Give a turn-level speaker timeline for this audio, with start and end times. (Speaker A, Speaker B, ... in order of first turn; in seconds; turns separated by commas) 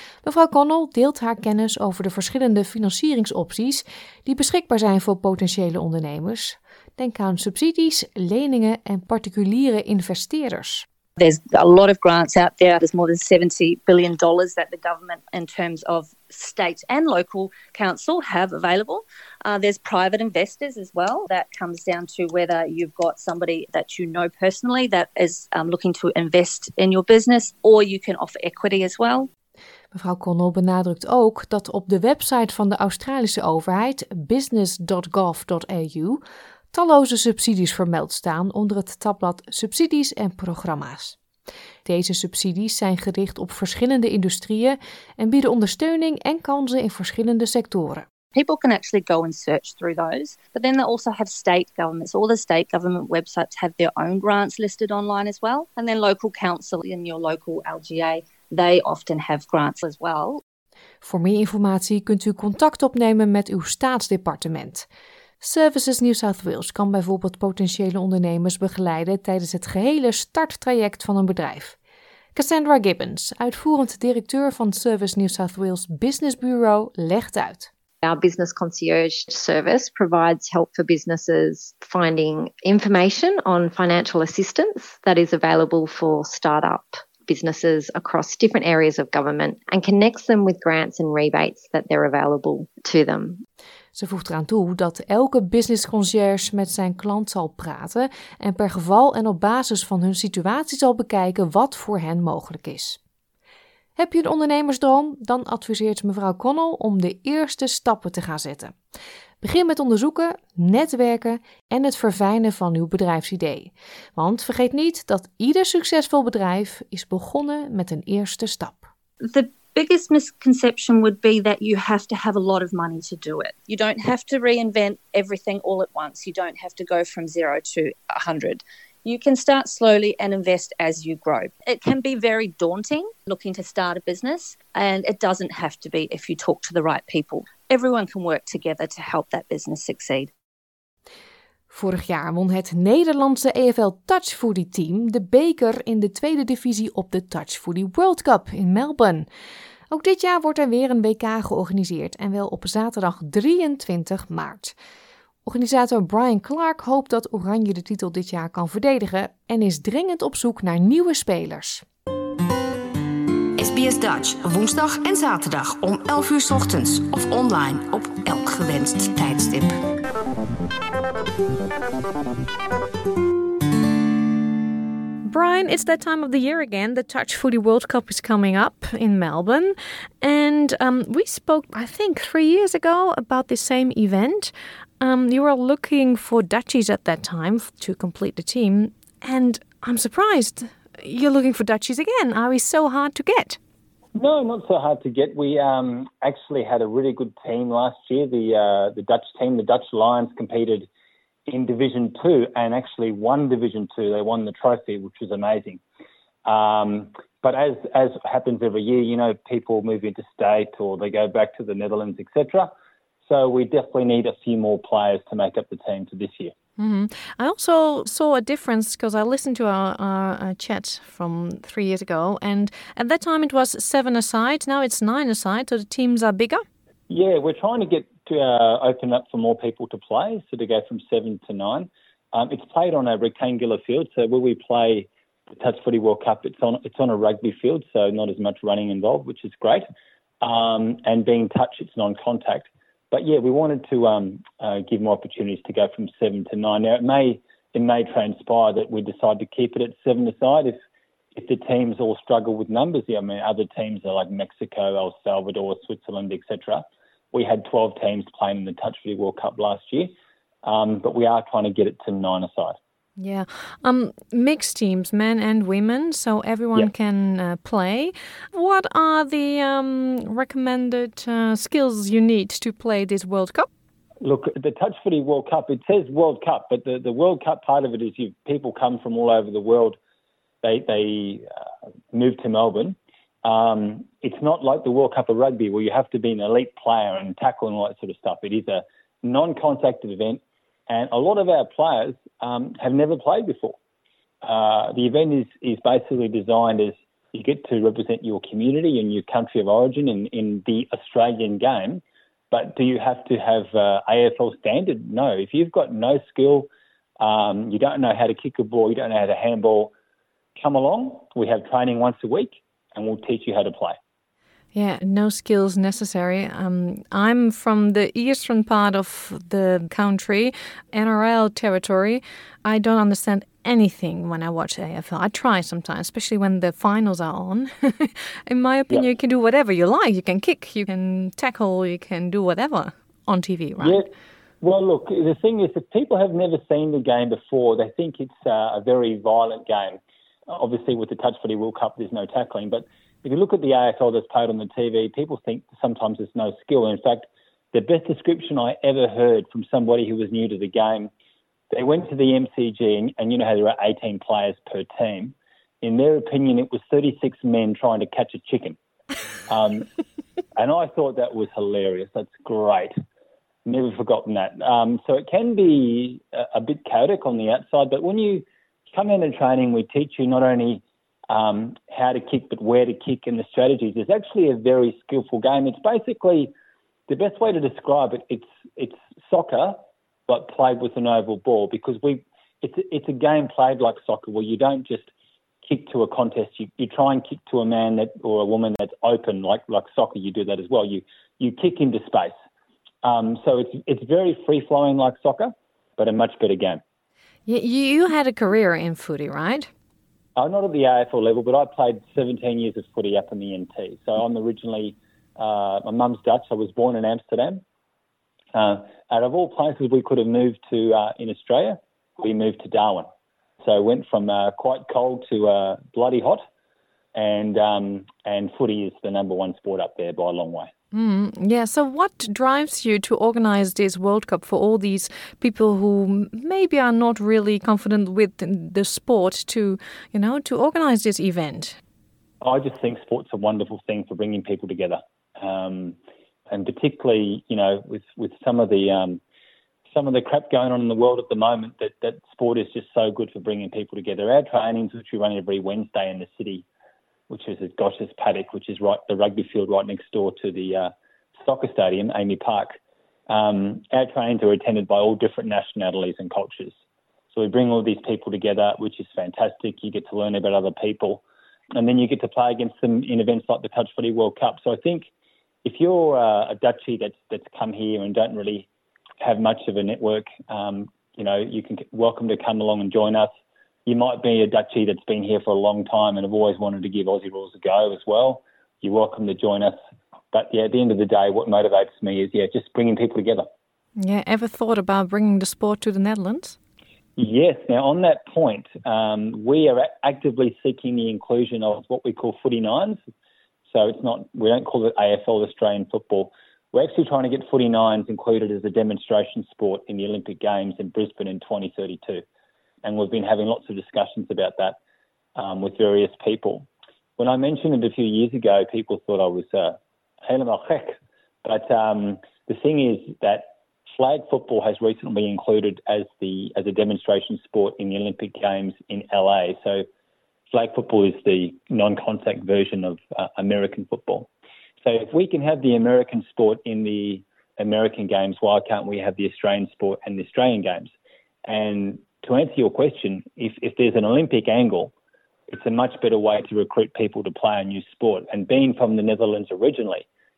Speaker A: 0.2-10.8, Speaker B: 11.2-29.3, Speaker A: 29.9-41.2, Speaker A: 41.9-48.1, Speaker B: 48.3-60.4, Speaker A: 61.0-64.9, Speaker A: 65.4-71.8, Speaker A: 72.3-77.7, Speaker C: 78.0-93.4, Speaker A: 94.0-103.0, Speaker A: 104.0-108.8, Speaker A: 109.4-118.9, Speaker B: 119.2-140.3, Speaker A: 141.7-149.3, Speaker A: 149.9-154.8, Speaker A: 155.4-161.8, Speaker D: 163.6-169.8, Speaker A: 175.3-193.6, Speaker E: 194.2-200.9, Speaker E: 201.5-205.8, Speaker E: 206.5-212.7, Speaker E: 213.2-216.5, Speaker A: 216.8-226.6, Speaker E: 227.1-239.9, Speaker E: 240.4-250.8, Speaker E: 251.3-262.8, Speaker A: 263.2-273.7, Speaker E: 274.2-280.0, Speaker E: 280.6-281.4, Speaker E: 282.1-293.8, Speaker E: 294.4-309.9, Speaker E: 310.6-314.0, Speaker A: 314.7-334.0, Speaker E: 333.8-334.1, Speaker E: 334.6-351.1, Speaker E: 351.7-358.8, Speaker E: 359.5-359.9, Speaker E: 360.6-362.9, Speaker E: 363.7-376.5, Speaker E: 377.1-385.1, Speaker E: 385.6-392.4, Speaker E: 393.0-396.8, Speaker A: 397.5-399.7, Speaker E: 400.4-407.6, Speaker E: 408.5-413.1, Speaker E: 413.6-416.4, Speaker E: 417.1-420.7, Speaker A: 420.9-431.8, Speaker E: 432.4-436.0, Speaker E: 436.5-439.2, Speaker E: 439.9-446.6, Speaker E: 447.3-450.9, Speaker E: 451.4-452.8, Speaker E: 453.3-456.8, Speaker E: 457.3-461.2, Speaker E: 461.8-465.1, Speaker E: 465.6-468.7, Speaker E: 469.2-473.3, Speaker E: 473.9-479.8, Speaker E: 480.3-483.5, Speaker A: 484.0-486.6, Speaker E: 487.2-493.0, Speaker E: 493.7-502.2, Speaker E: 502.8-504.8, Speaker E: 505.4-519.9, Speaker E: 520.5-524.3, Speaker E: 524.8-530.9, Speaker E: 531.5-534.9, Speaker E: 535.5-540.1